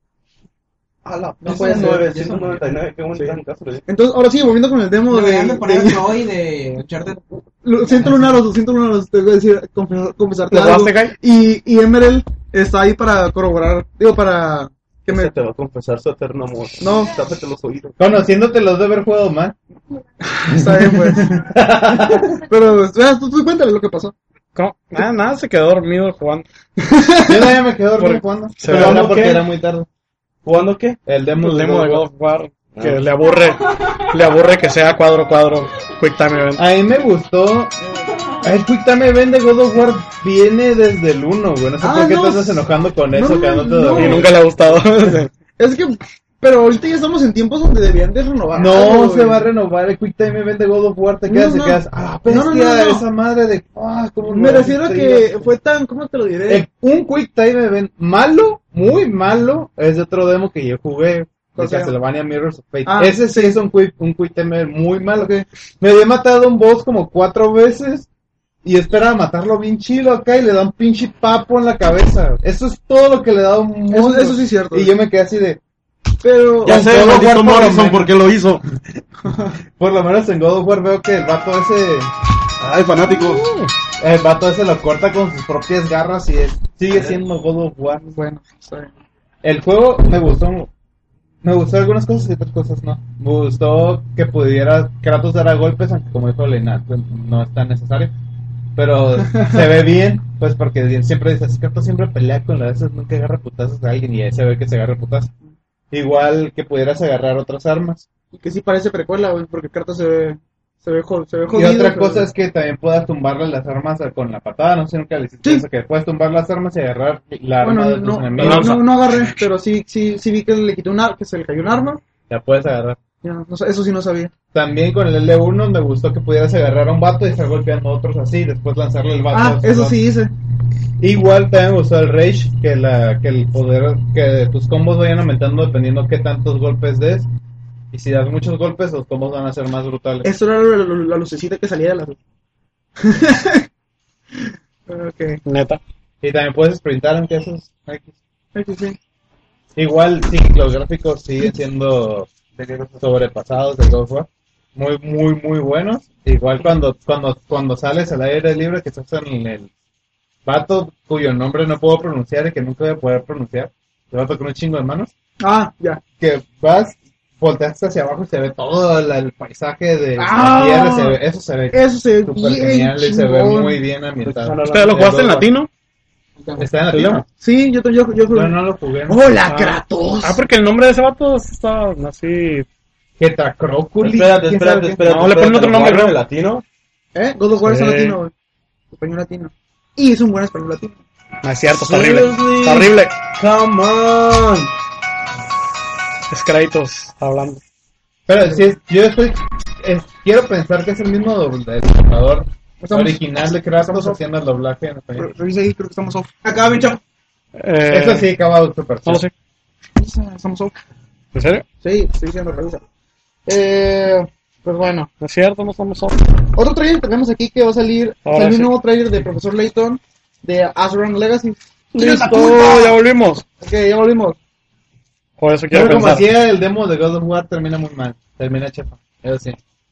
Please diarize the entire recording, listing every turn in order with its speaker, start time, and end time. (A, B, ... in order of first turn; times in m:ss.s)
0:01.0-0:03.8 A
0:01.4-0:02.1 B
0:01.4-0:02.6 C
0:03.2-0:06.1 B
0:05.1-0:07.2 C
0:07.6-0:15.3 B
0:10.5-0:11.1 D
0:15.1-0:18.0 A
0:16.8-0:17.1 B
0:18.0-0:19.5 E
0:20.3-0:21.5 B
0:20.5-0:21.2 E
0:21.4-0:22.3 A
0:21.9-0:22.3 E
0:22.4-0:24.1 B
0:24.5-0:26.5 D
0:27.0-0:27.6 B
0:27.3-0:29.9 E
0:28.0-0:29.1 D
0:28.6-0:29.5 A
0:30.4-0:31.0 A
0:31.0-0:32.0 E
0:31.4-0:36.6 D
0:32.7-0:33.0 A
0:36.6-0:37.7 E
0:38.4-0:44.3 E
0:41.8-0:44.4 B
0:43.9-0:45.3 D
0:45.6-0:49.4 B
0:48.5-0:55.5 E
0:51.2-0:53.0 B
0:54.2-0:56.6 B
0:56.5-1:08.1 E
1:01.6-1:01.9 B
1:02.8-1:03.6 B
1:08.6-1:15.6 E
1:13.9-1:14.9 B
1:16.2-1:16.9 B
1:16.6-1:18.6 A
1:16.6-1:18.1 E
1:19.2-1:19.6 B
1:19.8-1:22.1 E
1:22.6-1:23.4 A
1:23.0-1:23.6 B
1:24.0-1:28.1 E
1:26.9-1:27.2 A
1:28.0-1:28.9 B
1:29.4-1:30.7 E
1:31.4-1:38.1 E
1:38.8-1:45.3 E
1:45.9-1:48.0 E
1:48.3-1:52.3 B
1:51.5-1:58.8 E
1:57.6-2:02.0 B
1:58.4-1:59.2 D
2:02.3-2:03.0 E
2:03.2-2:04.3 B
2:04.5-2:10.0 E
2:09.3-2:10.3 B
2:11.0-2:17.3 E
2:17.9-2:20.3 E
2:20.2-2:22.2 B
2:23.0-2:23.6 B
2:24.3-2:25.4 B
2:25.4-2:25.8 D
2:26.2-2:28.2 E
2:28.5-2:29.0 B
2:29.8-2:32.3 E
2:32.5-2:33.0 A
2:33.0-2:39.7 E
2:40.4-2:45.1 E
2:45.4-2:46.0 B
2:46.2-2:55.4 E
2:50.2-2:51.2 B
2:51.7-2:53.8 B
2:54.2-2:55.4 A
2:54.6-2:55.7 D
2:56.6-2:57.2 E
2:56.9-2:58.6 B
2:58.3-2:59.3 E
2:59.1-3:00.4 B
2:59.4-3:02.6 D
3:03.2-3:04.9 E
3:04.0-3:06.6 A
3:05.0-3:06.2 D
3:07.1-3:08.3 B
3:07.6-3:08.2 D
3:08.9-3:11.0 B
3:11.4-3:13.2 D
3:11.8-3:14.7 A
3:16.3-3:17.6 D
3:18.3-3:25.3 E
3:18.4-3:18.6 B
3:22.8-3:24.2 B
3:25.2-3:26.3 B
3:26.4-3:27.0 C
3:27.6-3:28.3 D
3:27.9-3:29.2 E
3:29.0-3:29.3 D
3:30.0-3:30.7 B
3:31.3-3:31.6 D
3:31.8-3:32.8 B
3:33.4-3:35.1 B
3:35.2-3:36.2 D
3:36.5-3:43.0 B
3:38.2-3:38.7 D
3:41.9-3:43.4 D
3:43.6-3:44.4 B
3:45.4-3:46.3 D
3:45.7-3:49.6 E